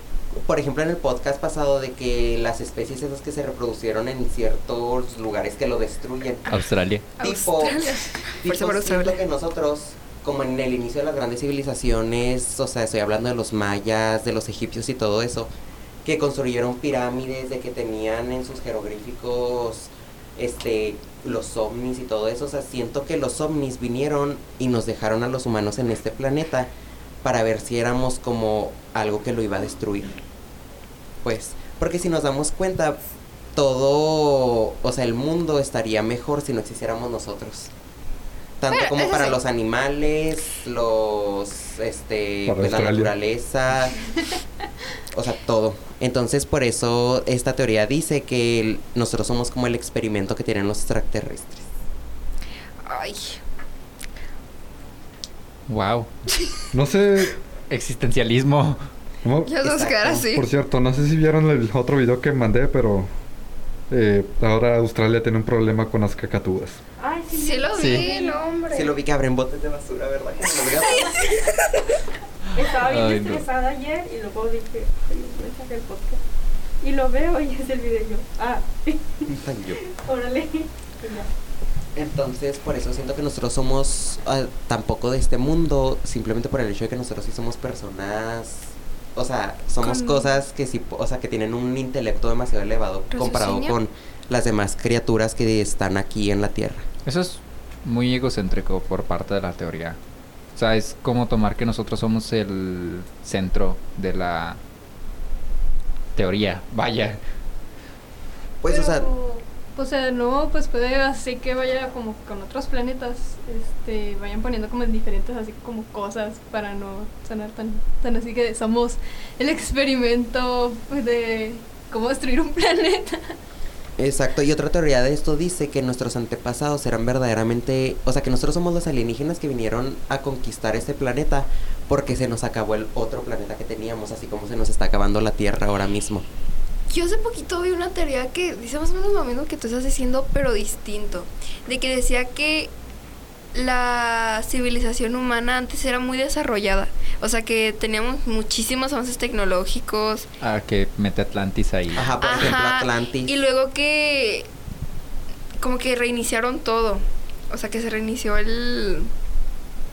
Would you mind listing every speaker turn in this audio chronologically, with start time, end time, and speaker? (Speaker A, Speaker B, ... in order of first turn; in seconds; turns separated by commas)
Speaker A: 0.4-6.5, Speaker B: 6.5-7.0, Speaker C: 7.2-9.2, Speaker A: 7.2-15.5, Speaker A: 16.0-26.7, Speaker A: 27.2-30.1, Speaker A: 31.2-33.0, Speaker A: 33.5-37.7, Speaker A: 38.6-44.1, Speaker C: 38.7-39.4, Speaker D: 42.5-43.1, Speaker A: 45.1-51.7, Speaker C: 52.8-53.4, Speaker B: 55.7-56.1, Speaker D: 56.7-57.4, Speaker B: 57.7-58.9, Speaker D: 59.2-59.6, Speaker C: 59.5-60.5, Speaker A: 59.6-60.2, Speaker D: 60.1-63.1, Speaker D: 63.9-66.8, Speaker E: 67.0-68.5, Speaker C: 67.3-68.9, Speaker A: 68.7-71.4, Speaker C: 70.9-71.5, Speaker E: 72.5-76.2, Speaker B: 72.8-73.5, Speaker E: 76.8-81.3, Speaker A: 79.3-79.8, Speaker A: 82.0-96.9, Speaker C: 89.8-90.2, Speaker C: 93.1-93.8, Speaker B: 97.0-100.0, Speaker B: 100.5-104.6, Speaker B: 106.2-107.2, Speaker A: 108.6-109.1, Speaker F: 108.7-123.4, Speaker A: 124.0-136.2, Speaker C: 136.9-142.7, Speaker C: 143.5-150.3, Speaker B: 150.4-152.1, Speaker A: 151.9-153.3, Speaker C: 152.2-154.5, Speaker C: 155.6-159.1